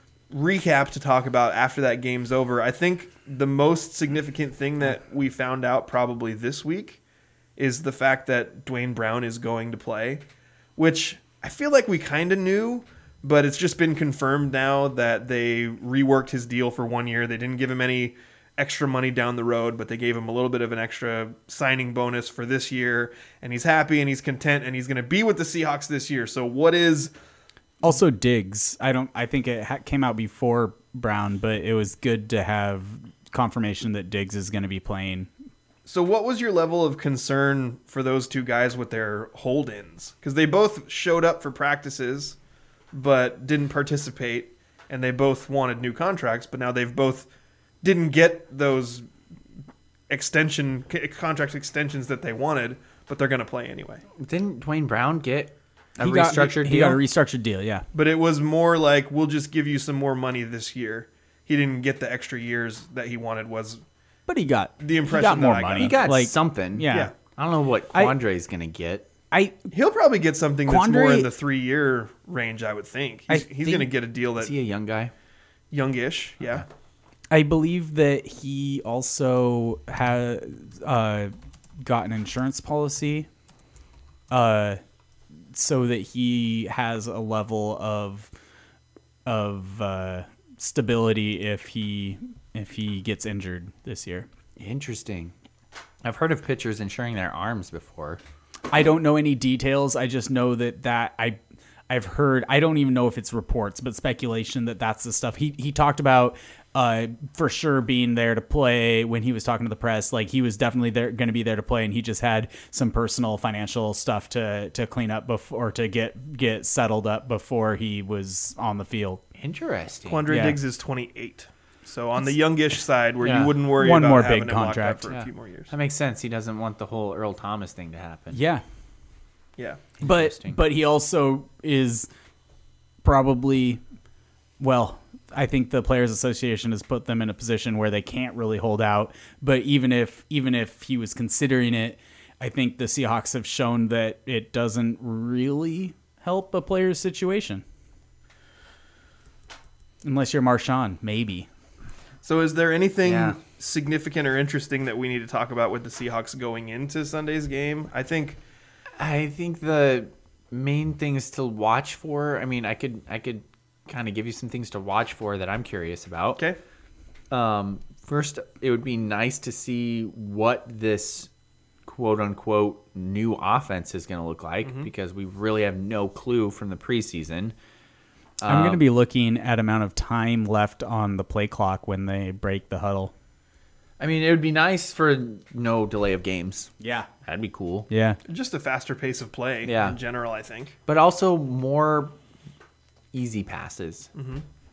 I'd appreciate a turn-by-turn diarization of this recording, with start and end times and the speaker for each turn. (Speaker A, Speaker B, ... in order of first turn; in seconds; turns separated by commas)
Speaker A: 0.3-7.0, Speaker A: 7.6-10.2, Speaker A: 10.8-27.1, Speaker B: 27.8-35.3, Speaker A: 35.9-42.4, Speaker A: 42.9-47.3, Speaker A: 47.8-49.1, Speaker A: 50.1-54.0, Speaker C: 54.2-57.0, Speaker B: 56.0-57.8, Speaker A: 57.9-63.8, Speaker B: 64.3-67.1, Speaker A: 64.8-66.2, Speaker C: 65.7-69.1, Speaker B: 69.3-69.6, Speaker A: 69.7-74.5, Speaker B: 70.7-71.3, Speaker B: 73.3-73.9, Speaker C: 74.4-75.1, Speaker A: 75.7-76.6, Speaker B: 77.3-83.3, Speaker B: 84.3-84.8, Speaker B: 85.5-88.3, Speaker B: 89.2-94.3, Speaker C: 94.6-95.3, Speaker C: 96.0-98.2, Speaker B: 98.7-101.4, Speaker B: 101.9-119.2, Speaker C: 119.4-120.3, Speaker A: 120.0-125.7, Speaker B: 120.3-120.6, Speaker C: 123.2-123.5, Speaker B: 123.8-125.1, Speaker C: 125.1-128.4, Speaker B: 128.3-128.6, Speaker A: 129.6-129.8, Speaker C: 130.0-130.6, Speaker B: 130.0-132.1, Speaker B: 133.0-133.8, Speaker B: 134.6-147.6, Speaker B: 150.0-151.5, Speaker A: 152.2-158.4, Speaker C: 153.0-153.3, Speaker C: 159.0-166.4, Speaker C: 167.3-171.3, Speaker C: 171.8-177.5, Speaker A: 174.6-174.9, Speaker C: 178.4-178.8, Speaker B: 178.4-183.1, Speaker C: 184.0-186.7, Speaker B: 186.8-187.1, Speaker C: 187.2-187.9, Speaker B: 187.9-188.2, Speaker A: 188.3-190.8, Speaker C: 189.6-190.0, Speaker C: 190.9-192.1, Speaker C: 193.1-194.1, Speaker A: 194.1-194.4